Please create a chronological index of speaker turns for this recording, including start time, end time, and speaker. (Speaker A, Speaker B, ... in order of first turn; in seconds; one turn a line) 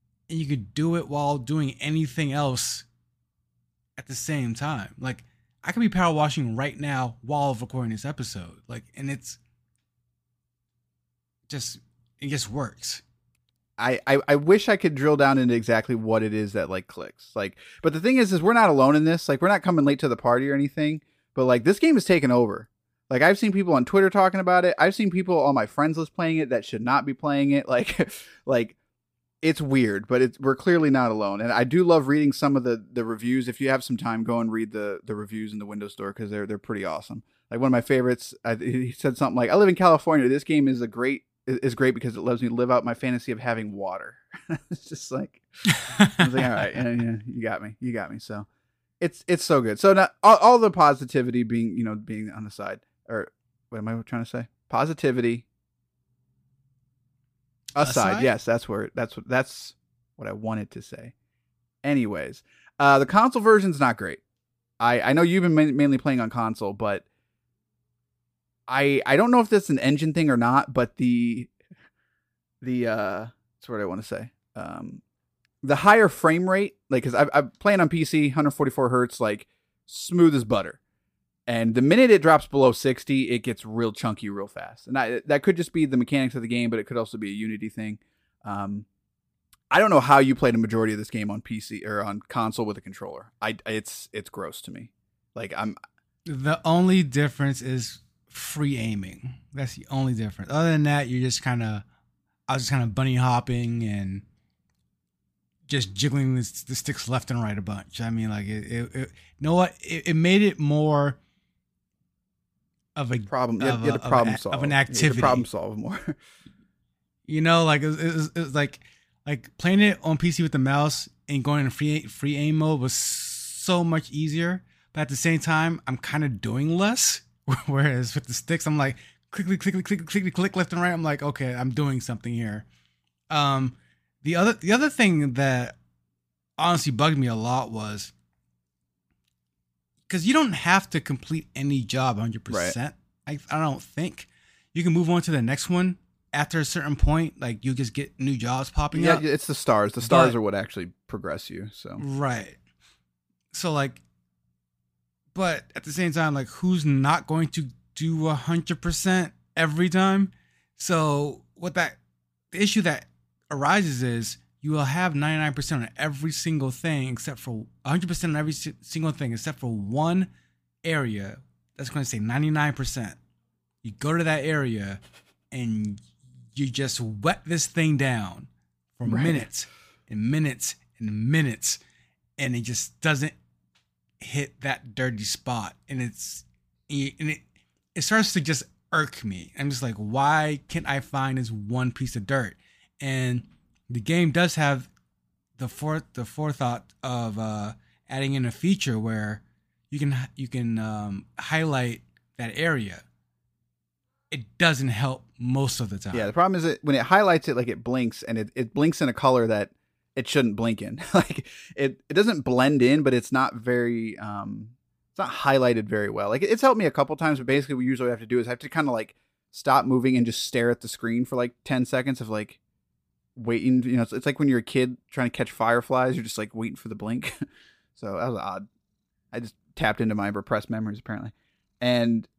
Speaker A: 0.3-2.9
Speaker A: 4.0-9.4
Speaker A: 11.5-13.0
Speaker B: 13.8-28.8
Speaker B: 29.4-48.5
Speaker A: 45.8-46.6
Speaker B: 49.0-55.5
Speaker B: 57.8-61.1
Speaker A: 57.8-58.3
Speaker B: 61.8-64.2
Speaker B: 64.8-67.0
Speaker B: 68.7-71.5
Speaker B: 72.6-75.0
Speaker B: 75.6-80.8
Speaker B: 81.5-88.8
Speaker B: 89.7-95.8
Speaker A: 96.2-101.8
Speaker A: 102.5-104.2
Speaker A: 105.7-111.2
Speaker A: 113.0-115.5
Speaker B: 113.3-116.2
Speaker A: 117.3-132.7
Speaker A: 133.3-135.8
Speaker A: 136.6-138.1
Speaker A: 140.1-149.2
Speaker B: 142.5-142.8
Speaker B: 148.9-152.0
Speaker A: 150.0-150.3
Speaker A: 152.0-152.6
Speaker A: 153.5-154.0
Speaker A: 155.3-162.0
Speaker A: 162.5-170.3
Speaker A: 170.8-173.2
Speaker A: 173.8-181.8
Speaker B: 179.1-179.4
Speaker A: 182.4-183.3
Speaker A: 184.2-187.4
Speaker A: 187.9-194.9
Speaker A: 195.6-203.0
Speaker A: 204.3-206.3
Speaker B: 206.1-222.6
Speaker B: 223.3-227.3
Speaker B: 227.9-228.7
Speaker B: 229.3-232.3